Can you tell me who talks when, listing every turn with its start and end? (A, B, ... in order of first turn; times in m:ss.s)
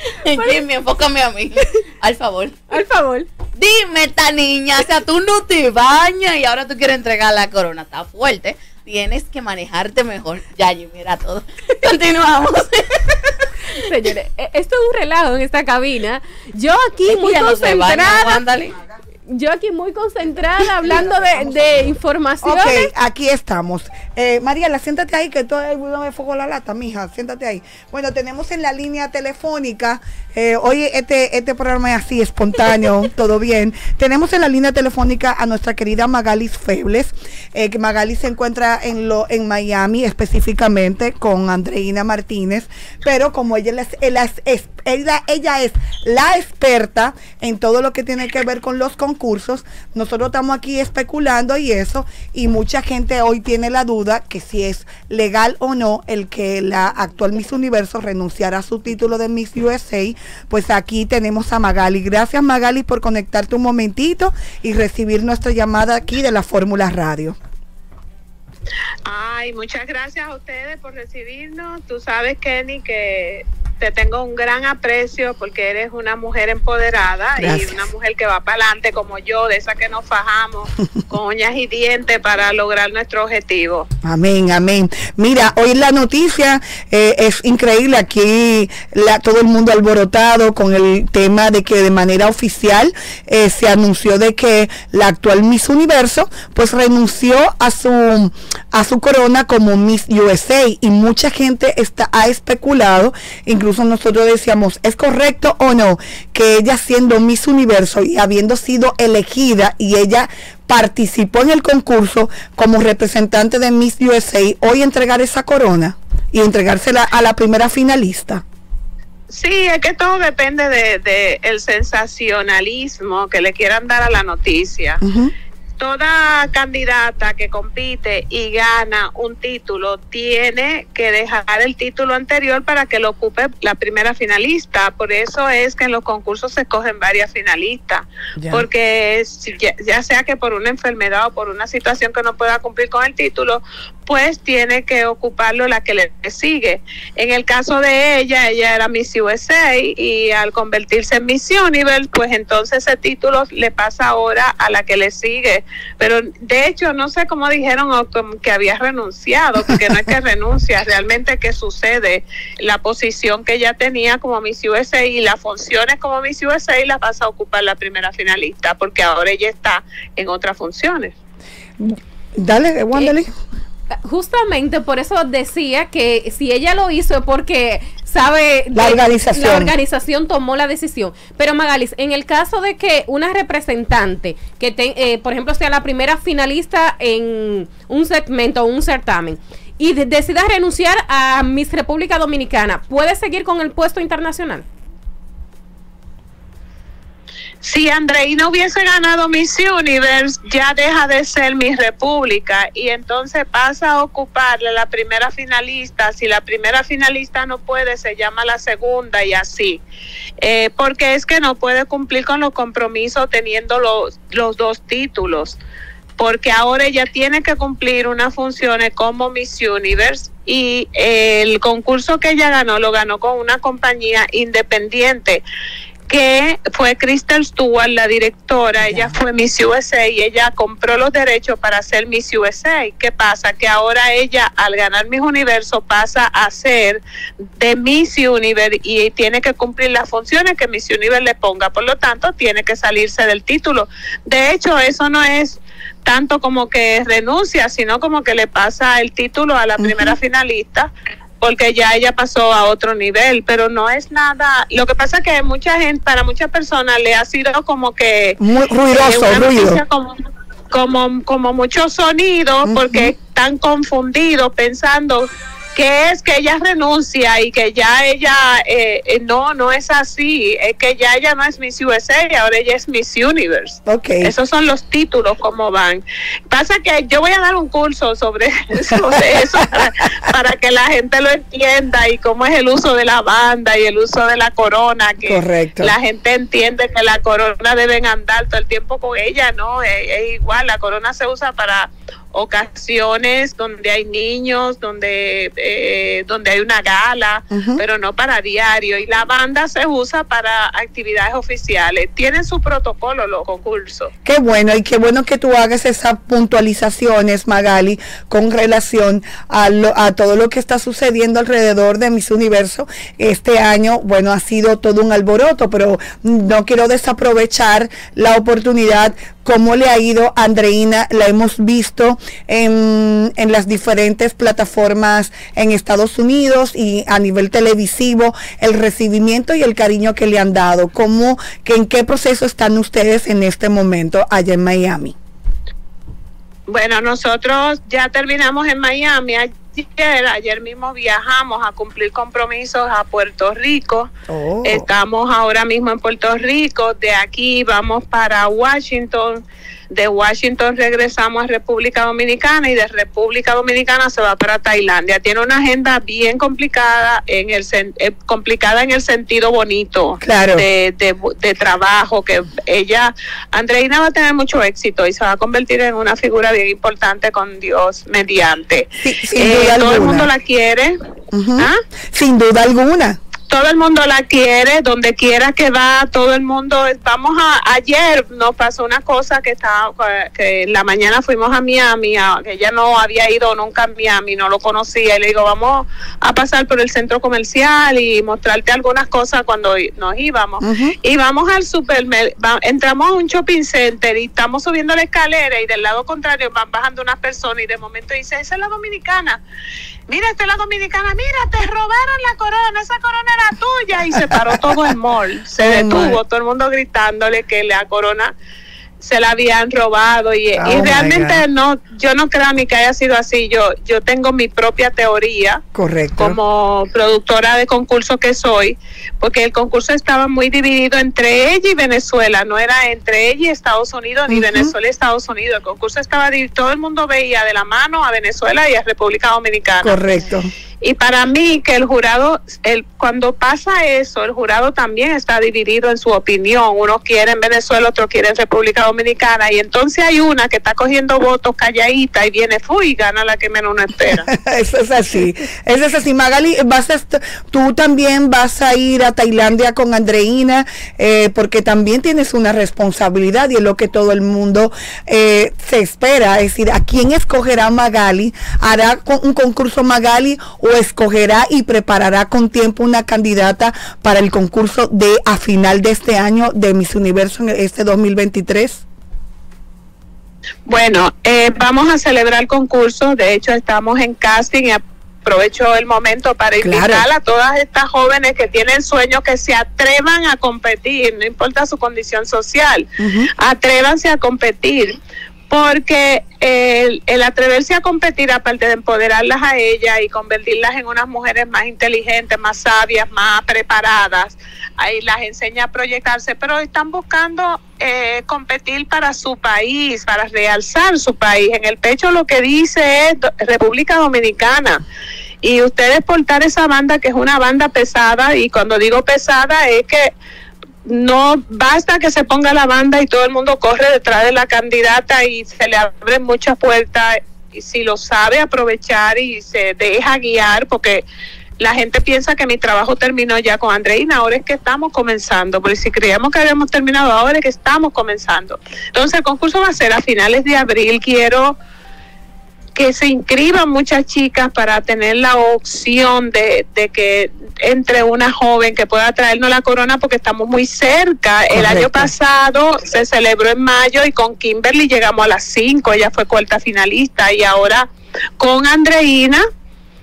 0:00.1-0:02.6 A
0:02.7-0:03.3 B
0:03.6-0:13.5 A
0:13.7-0:18.4 B
0:17.1-0:18.8 A
0:19.3-0:22.9 B
0:20.8-1:07.4 C
1:09.1-1:23.9 D
1:17.4-1:17.8 C
1:24.0-1:58.4 C
1:59.3-2:05.0 D
2:05.0-2:05.3 C
2:05.8-2:51.1 D
2:18.4-2:18.7 C
2:51.8-2:53.3 C
2:54.0-3:14.6 B
2:58.7-2:59.7 C
3:17.6-3:29.8 D
3:30.4-3:35.6 D
3:36.2-3:45.4 D
3:46.1-3:57.0 D
3:48.8-3:49.2 C
3:57.6-4:10.9 D
4:09.8-4:10.2 C
4:11.4-4:18.4 D
4:18.4-4:19.8 C
4:18.9-4:20.2 D
4:20.7-5:04.1 D
4:22.7-4:23.1 C
4:33.9-4:34.3 C
4:38.9-4:39.9 C
4:45.2-4:46.0 C
4:57.5-4:57.8 C
5:04.2-5:35.2 C
5:36.7-5:44.1 D
5:44.3-5:44.9 C
5:44.6-6:11.0 D
6:00.2-6:00.6 C
6:09.0-6:10.3 C
6:11.3-6:13.2 C
6:13.5-6:39.4 D
6:30.6-6:31.0 C
6:40.1-6:48.3 D
6:44.2-6:44.8 C
6:45.6-6:46.2 C
6:49.0-6:55.6 D
6:50.6-6:51.4 C
6:55.8-6:56.4 C
6:56.2-7:10.0 D
7:04.3-7:04.7 C
7:09.8-7:10.5 C
7:10.8-7:24.3 D
7:24.1-7:48.8 C
7:50.7-8:02.9 D
7:56.6-7:57.1 C
8:03.0-8:03.3 C
8:03.4-8:05.0 D
8:05.5-8:24.8 D
8:25.4-8:30.1 D
8:30.9-8:41.0 D
8:41.6-8:51.6 D
8:52.8-9:07.9 D
9:01.5-9:02.1 C
9:08.4-9:09.4 D